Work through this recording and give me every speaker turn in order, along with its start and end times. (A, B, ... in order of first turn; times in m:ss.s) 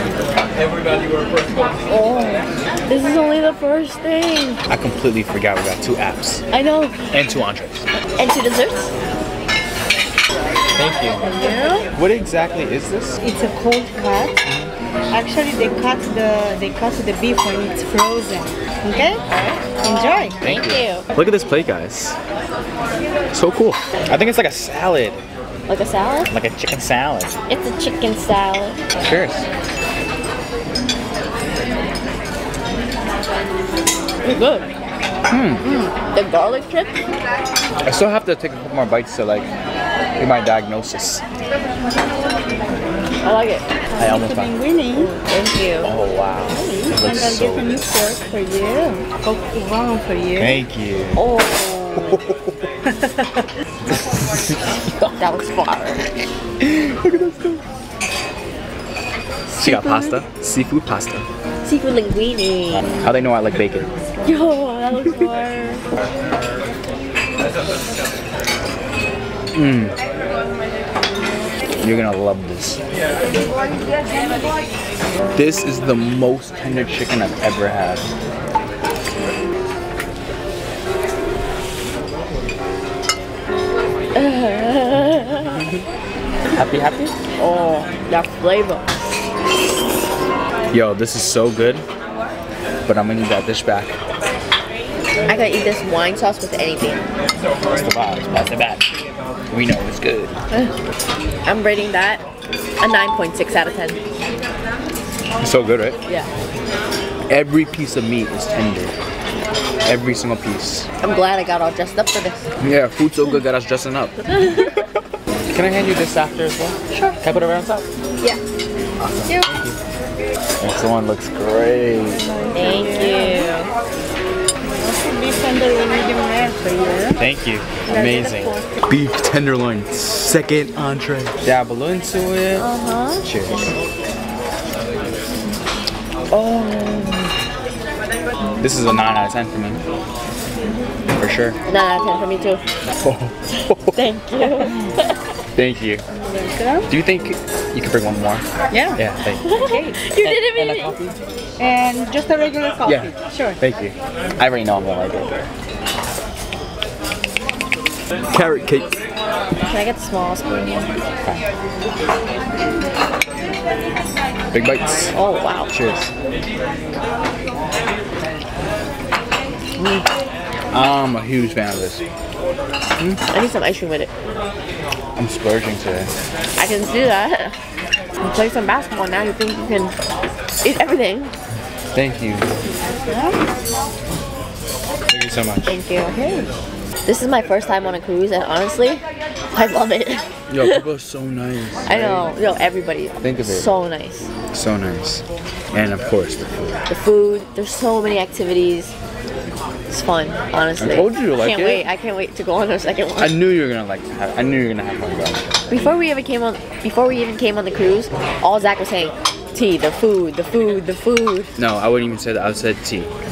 0:00.5-0:01.8 A
0:01.9-0:04.6 B
0:04.7-0:06.4 A
0:06.5-0:07.1 B
0:07.1-0:07.8 A
0:08.2-0:08.9 B
0:10.8-0:11.2 A
0:11.3-0:11.9 C
0:12.0-0:13.2 A
0:13.2-0:14.4 C
0:15.1-0:19.2 C
0:19.3-0:21.0 B
0:19.8-0:20.4 C
0:20.4-0:22.2 A
0:23.3-0:25.2 A
0:25.7-0:26.3 B
0:26.3-0:27.4 A
0:27.5-0:28.8 B
0:29.0-0:29.4 A
0:34.2-0:34.7 B
0:35.3-0:35.7 A
0:35.6-0:37.0 B
0:37.8-0:39.5 A
0:40.2-0:41.2 A
0:43.2-0:43.7 B
0:43.9-0:45.1 C
0:44.0-0:44.5 A
0:44.9-0:45.9 B
0:45.8-0:47.8 A
0:46.5-0:50.6 C
0:50.4-0:51.3 A
0:51.2-0:52.2 B
0:52.0-0:52.5 A
0:52.8-0:53.2 C
0:53.9-0:55.2 A
0:55.2-0:56.1 B
0:56.6-0:57.6 A
0:59.5-1:00.2 B
0:59.6-1:01.3 A
1:01.6-1:02.9 B
1:02.7-1:03.9 A
1:04.2-1:05.8 B
1:09.5-1:10.0 A
1:11.8-1:12.8 A
1:15.3-1:18.1 A
1:24.1-1:25.6 B
1:25.4-1:25.8 A
1:26.5-1:27.1 A
1:27.4-1:28.9 B
1:30.7-1:31.8 A
1:32.8-1:34.0 A
1:35.3-1:37.0 B
1:37.7-1:38.8 A
1:39.5-1:40.3 A
1:41.4-1:42.2 B
1:42.8-1:44.0 B
1:45.4-1:46.0 A
1:47.3-1:48.9 A
1:49.8-1:50.9 A
1:51.0-1:52.5 B
1:52.6-1:54.8 A
1:54.4-1:54.6 B
1:55.5-1:57.9 A
1:59.0-1:59.8 A
2:00.6-2:02.2 A
2:02.1-2:03.6 C
2:02.5-2:03.7 B
2:04.8-2:07.2 C
2:07.2-2:12.7 A
2:07.8-2:08.8 C
2:12.6-2:13.2 B
2:13.2-2:13.7 A
2:16.3-2:17.3 A
2:18.6-2:19.8 A
2:21.2-2:21.6 A
2:21.7-2:22.6 B
2:23.0-2:23.9 A
2:23.9-2:25.2 B
2:25.5-2:26.0 A
2:26.2-2:26.9 C
2:26.9-2:28.4 A
2:28.7-2:29.0 C
2:29.0-2:29.5 A
2:29.4-2:31.0 B
2:29.6-2:30.0 C
2:30.2-2:31.2 A
2:31.6-2:33.6 C
2:32.8-2:35.5 A
2:38.3-2:39.0 A
2:39.6-2:40.9 B
2:44.5-2:45.1 A
2:45.1-2:45.7 B
2:45.7-2:46.1 A
2:50.7-2:52.0 A
2:53.3-2:54.1 B
2:55.2-2:56.1 A
2:56.6-2:57.5 B
2:58.2-2:59.9 B
3:00.6-3:01.3 B
3:01.9-3:02.6 A
3:05.1-3:05.8 A
3:05.6-3:06.2 B
3:07.0-3:10.8 B
3:10.5-3:12.3 A
3:11.8-3:14.3 B
3:13.2-3:13.7 A
3:14.5-3:16.8 A
3:16.9-3:18.9 B
3:19.9-3:23.4 B
3:20.8-3:21.8 A
3:23.2-3:25.6 A
3:25.7-3:31.5 B
3:31.6-3:33.1 A